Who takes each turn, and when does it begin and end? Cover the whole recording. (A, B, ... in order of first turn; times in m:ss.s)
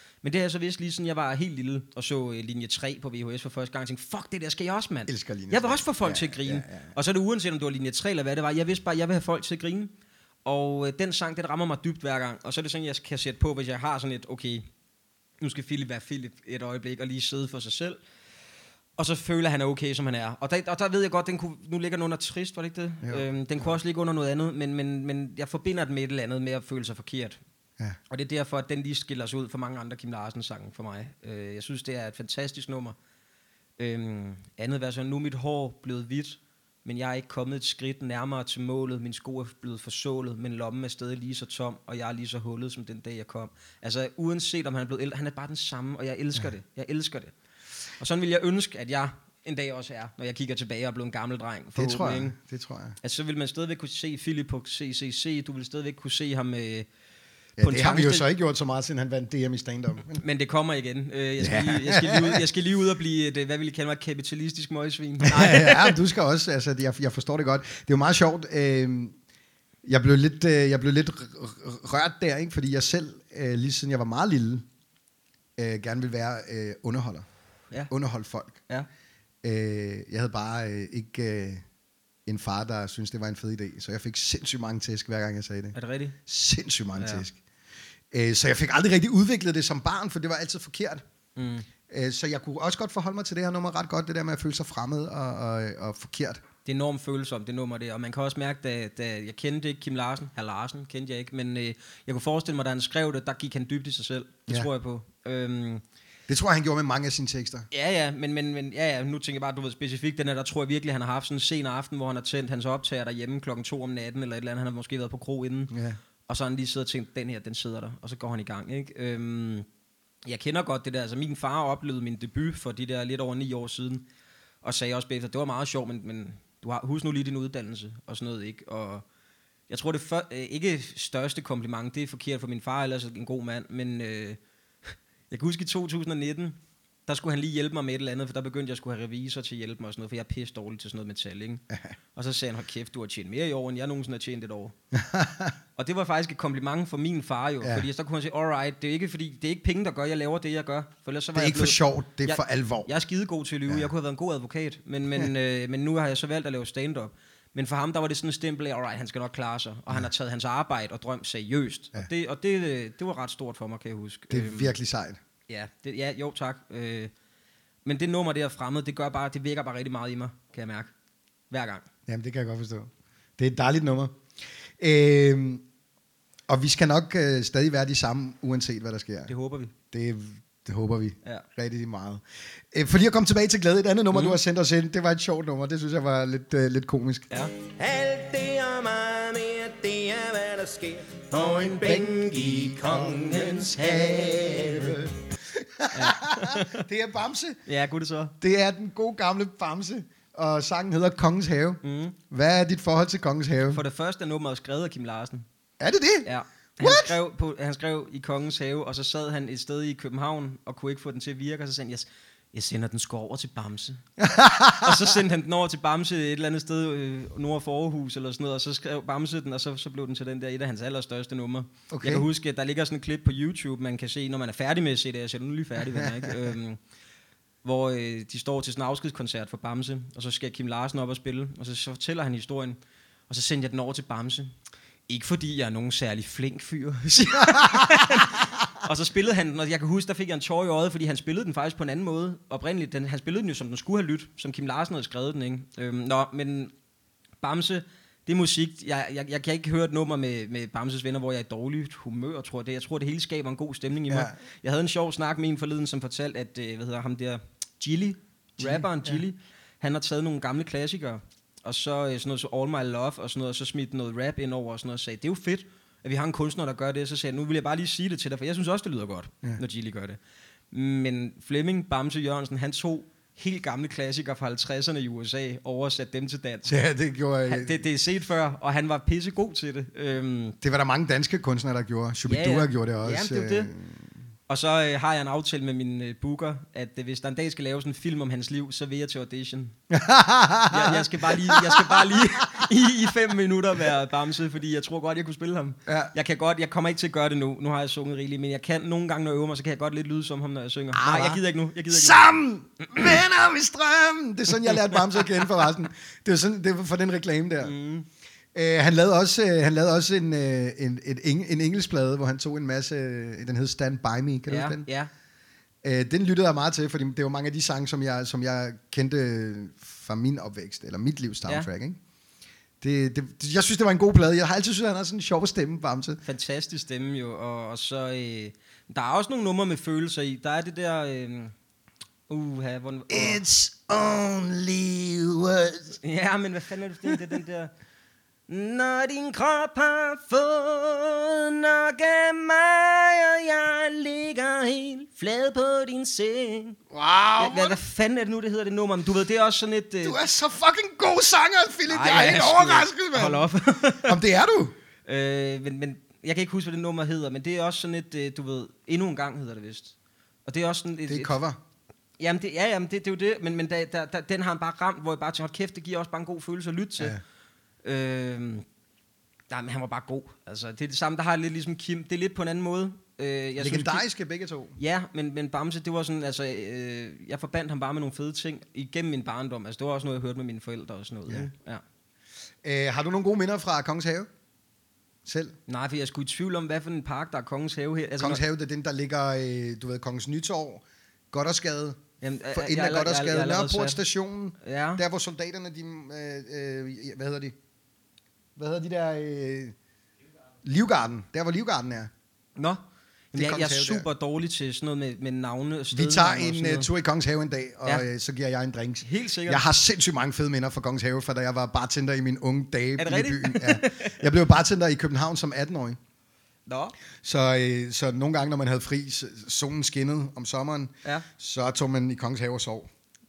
0:00.2-0:09.9 A
0:05.1-0:06.9 B
0:10.4-0:14.7 A
0:15.4-0:18.0 A
0:19.0-0:27.4 A
0:23.0-0:23.7 B
0:28.1-0:33.0 A
0:33.8-0:47.3 A
0:48.0-0:52.4 A
0:51.8-0:53.0 B
0:53.0-0:56.9 A
0:57.6-0:58.3 A
0:57.6-1:00.2 B
1:00.2-1:06.0 A
1:01.4-1:02.4 B
1:05.2-1:09.2 B
1:09.8-1:14.6 B
1:15.6-1:17.3 B
1:17.9-1:18.6 B
1:19.4-1:21.6 B
1:22.3-1:25.8 B
1:25.8-1:26.2 A
1:26.3-1:27.4 B
1:27.0-1:27.2 A
1:28.1-1:31.0 B
1:31.4-1:31.7 A
1:31.9-1:36.4 B
1:36.6-1:45.8 A
1:46.3-1:47.7 B
1:47.7-1:55.7 A
1:55.7-1:56.0 B
1:56.3-1:59.7 A
2:00.2-2:04.0 A
2:04.6-2:09.0 A
2:09.7-2:21.6 A
2:22.2-2:24.8 A
2:24.9-2:25.6 B
2:25.8-2:44.7 A
2:31.4-2:32.9 B
2:44.3-2:45.2 B
2:45.5-2:47.1 A
2:47.8-2:50.9 A
2:51.5-2:51.8 A
2:52.1-2:54.2 B
2:54.8-2:55.6 B
2:56.5-2:59.3 B
2:59.3-2:59.7 A
2:59.9-3:07.3 B
3:04.1-3:04.4 A
3:07.8-3:15.0 C
3:13.8-3:17.6 B
3:15.9-3:16.8 A
3:17.7-3:18.3 A
3:18.4-3:23.8 B
3:21.8-3:22.2 A
3:23.7-3:25.5 A
3:25.8-3:27.1 B
3:26.2-3:34.0 A
3:34.2-3:35.1 B
3:34.8-3:46.8 A
3:41.9-3:42.3 B
3:47.6-3:52.8 A
3:53.3-3:54.6 A
3:55.1-4:06.7 A
3:57.3-3:58.3 B
4:07.4-4:30.2 A
4:14.1-4:14.4 B
4:18.6-4:19.2 B
4:30.7-4:36.8 A
4:36.7-4:37.8 B
4:37.5-4:40.6 A
4:40.6-4:44.0 B
4:42.3-4:43.7 A
4:44.5-4:49.8 A
4:49.9-4:52.6 B
4:50.7-5:02.2 A
4:55.9-4:56.1 B
5:01.0-5:07.7 B
5:04.9-5:05.4 A
5:07.6-5:08.1 A
5:08.5-5:14.9 B
5:14.5-5:15.1 A
5:15.8-5:22.0 B
5:22.8-5:26.2 B
5:26.2-5:31.5 A
5:32.3-5:33.4 A
5:33.1-5:36.0 B
5:36.0-5:37.7 A
5:38.5-5:46.8 A
5:46.9-5:47.8 B
5:47.4-5:50.2 A
5:50.0-5:54.7 B
5:51.9-5:54.2 A
5:55.1-5:59.9 A
6:00.5-6:01.3 A
6:01.1-6:01.6 B
6:02.2-6:07.2 A
6:07.8-6:08.7 A
6:09.5-6:14.0 A
6:13.6-6:14.8 B
6:14.8-6:21.8 A
6:22.6-6:24.3 B
6:25.2-6:25.6 B
6:25.7-6:28.4 A
6:28.2-6:32.0 B
6:32.2-6:34.0 A
6:32.5-6:37.6 B
6:34.6-6:35.0 A
6:38.6-6:39.8 B
6:40.6-6:42.1 B
6:43.3-6:46.9 A
6:43.4-6:44.1 B
6:45.9-6:56.0 B
6:49.0-6:49.6 A
6:53.0-6:54.2 A
6:56.7-6:56.9 A
6:57.2-7:02.9 B